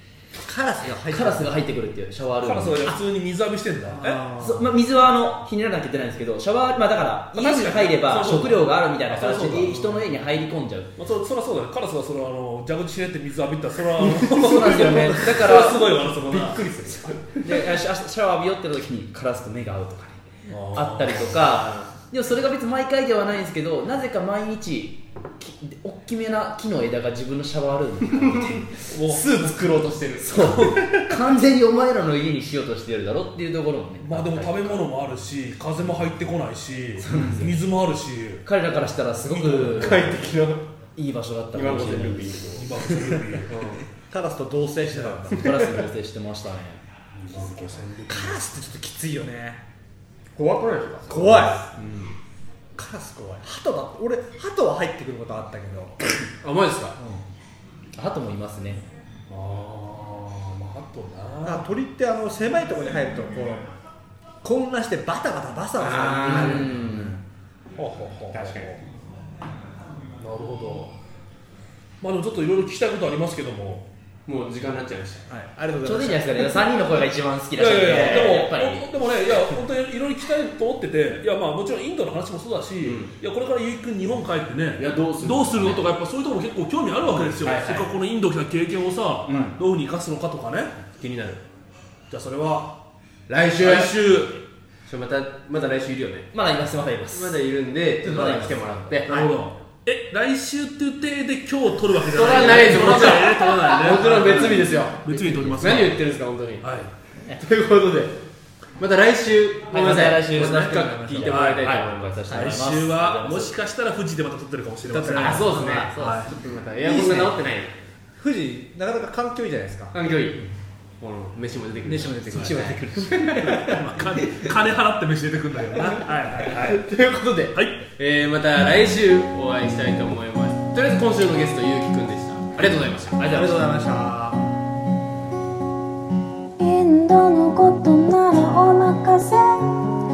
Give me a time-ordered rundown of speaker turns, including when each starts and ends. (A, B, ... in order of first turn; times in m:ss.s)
0:00.3-0:01.6 A
0:00.9-0:03.0 B
0:02.4-0:04.3 C
0:03.9-0:04.7 A
0:04.4-0:10.9 B
0:07.3-0:10.1 C
0:11.0-0:16.8 C
0:14.0-0:17.7 D
0:14.2-0:15.9 B
0:17.4-0:28.7 B
0:20.5-0:21.3 C
0:21.1-0:21.9 D
0:28.9-0:29.3 C
0:28.9-0:31.2 D
0:30.2-0:34.9 B
0:30.4-0:30.8 C
0:34.0-0:38.4 C
0:37.0-0:37.6 B
0:38.4-0:40.2 B
0:39.3-0:40.1 C
0:39.6-0:40.6 D
0:41.0-0:43.2 B
0:41.5-0:42.7 D
0:42.5-0:43.6 C
0:43.4-0:43.8 D
0:44.1-0:45.7 A
0:45.3-0:47.8 B
0:45.4-0:45.8 D
0:47.2-0:48.4 C
0:48.1-0:49.6 A
0:50.4-0:52.2 D
0:51.1-0:51.7 A
0:52.8-0:56.0 A
0:56.4-0:57.0 D
0:57.9-0:58.8 B
0:59.3-1:01.7 C
1:01.4-1:03.7 A
1:04.4-1:07.2 A
1:05.8-1:06.8 D
1:06.2-1:07.2 B
1:07.8-1:08.8 C
1:08.3-1:08.7 D
1:10.2-1:10.9 C
1:12.0-1:13.9 C
1:14.3-1:15.3 D
1:15.3-1:16.5 A
1:15.8-1:18.9 B
1:17.6-1:30.7 C
1:17.8-1:18.4 D
1:22.8-1:23.1 D
1:24.8-1:25.9 D
1:27.1-1:27.9 D
1:29.2-1:29.6 B
1:31.0-1:31.4 D
1:32.1-1:32.7 C
1:33.3-1:34.3 D
1:33.6-1:34.4 C
1:34.8-1:36.3 D
1:36.3-1:37.4 B
1:37.1-1:39.2 D
1:38.0-1:39.0 B
1:39.0-1:46.0 C
1:42.1-1:46.6 D
1:46.6-1:46.9 C
1:47.3-1:48.2 D
1:48.8-1:52.6 D
1:49.7-1:53.6 B
1:50.4-1:51.3 A
1:51.3-1:56.3 C
1:54.9-1:55.7 A
1:55.2-1:57.7 D
1:55.3-1:57.3 B
1:58.2-1:59.9 A
1:59.9-2:00.4 D
2:01.0-2:03.8 D
2:01.8-2:03.6 A
2:02.3-2:03.6 B
2:03.6-2:06.9 C
2:06.4-2:13.5 D
2:07.5-2:07.8 C
2:13.2-2:13.5 B
2:13.3-2:14.4 A
2:16.6-2:20.0 E